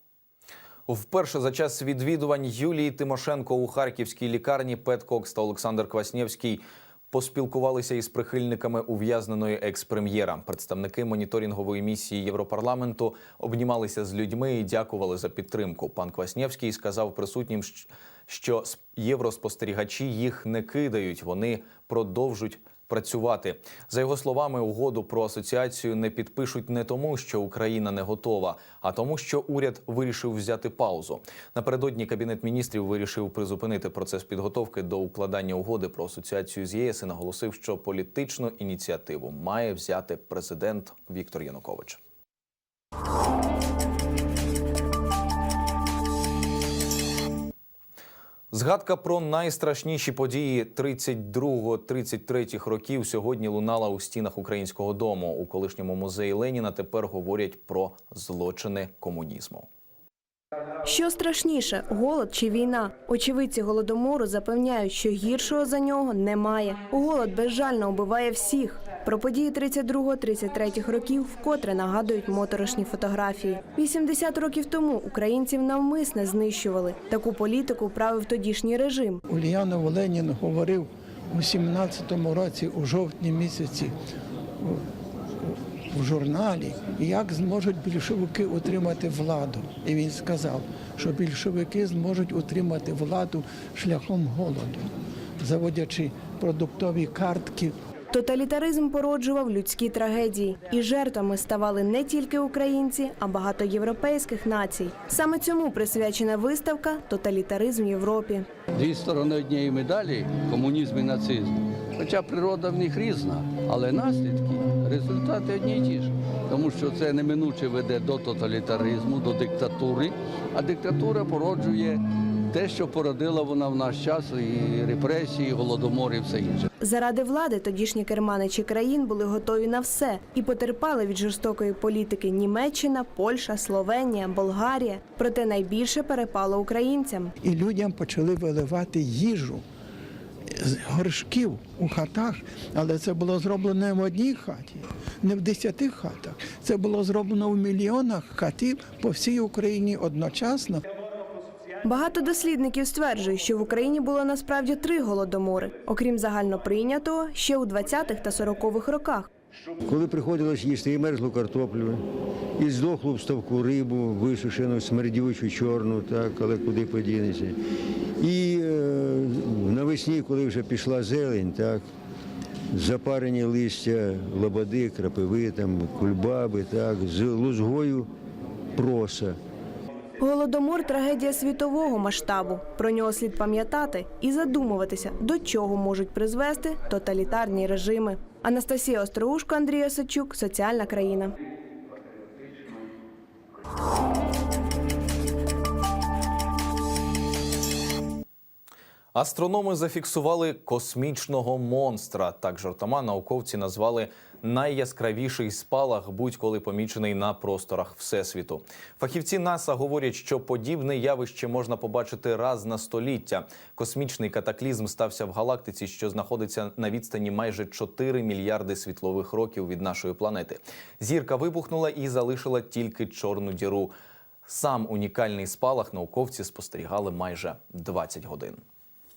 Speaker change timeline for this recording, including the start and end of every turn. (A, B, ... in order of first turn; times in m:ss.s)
0:00.9-0:42.0 A
0:48.5-0:59.7 A
1:00.8-1:19.2 B
1:19.3-1:23.9 C
1:25.4-1:34.9 C
1:35.4-1:37.7 C
1:38.1-1:48.5 B
1:48.8-2:06.7 D
2:06.8-2:17.3 B
2:17.4-2:19.6 C
2:20.5-2:30.8 C
2:31.8-2:39.3 B
2:39.8-2:42.0 E
2:42.6-2:47.6 E
2:48.2-2:51.8 E
2:52.7-2:58.1 E
2:58.8-2:59.3 E
3:00.2-3:11.3 B
3:19.1-3:43.9 A
3:44.5-3:48.6 A